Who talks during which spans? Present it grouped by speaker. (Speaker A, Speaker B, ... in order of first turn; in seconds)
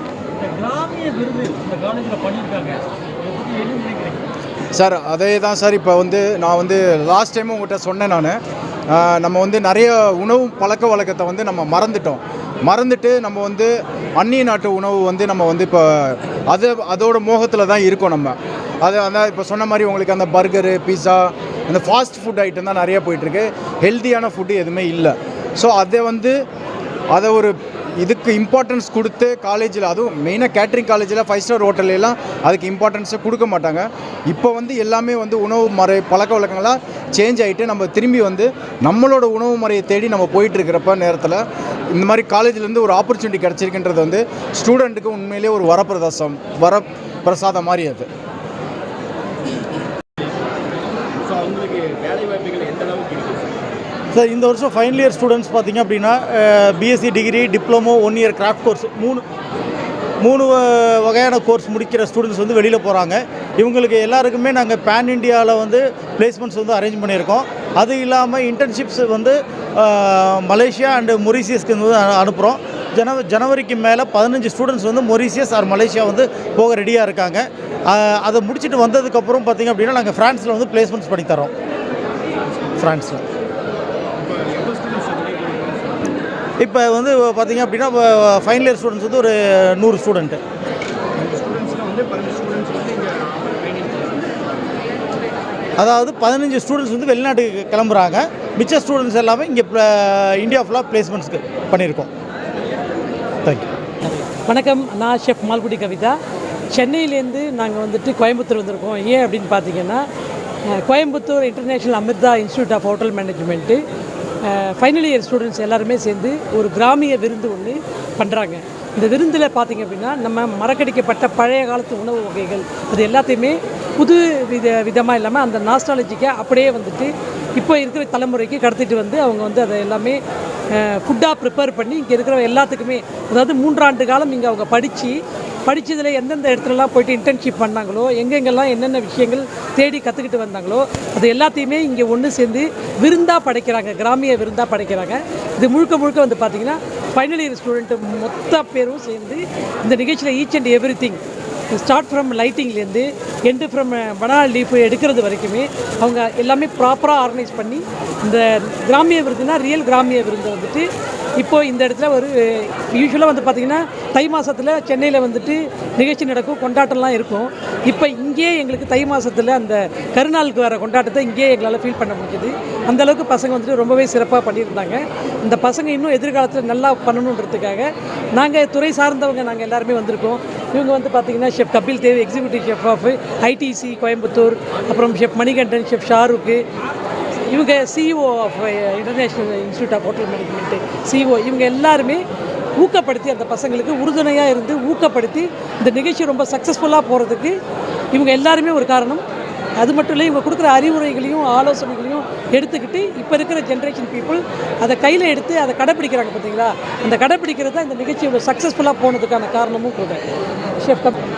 Speaker A: 0.4-4.2
Speaker B: 4.7-8.4, 8.9-26.4, 27.1-48.1
Speaker C: 51.3-53.4, 84.5-85.7, 91.5-94.1
Speaker D: 54.1-59.2, 60.2-81.5, 82.8-83.2, 86.6-90.4, 95.8-102.1
Speaker E: 104.5-106.2, 106.7-110.0, 110.7-113.8, 114.4-130.2, 130.8-151.2, 151.7-186.6, 187.5-192.2, 192.8-197.6, 198.1-199.2, 199.8-210.2, 210.8-211.2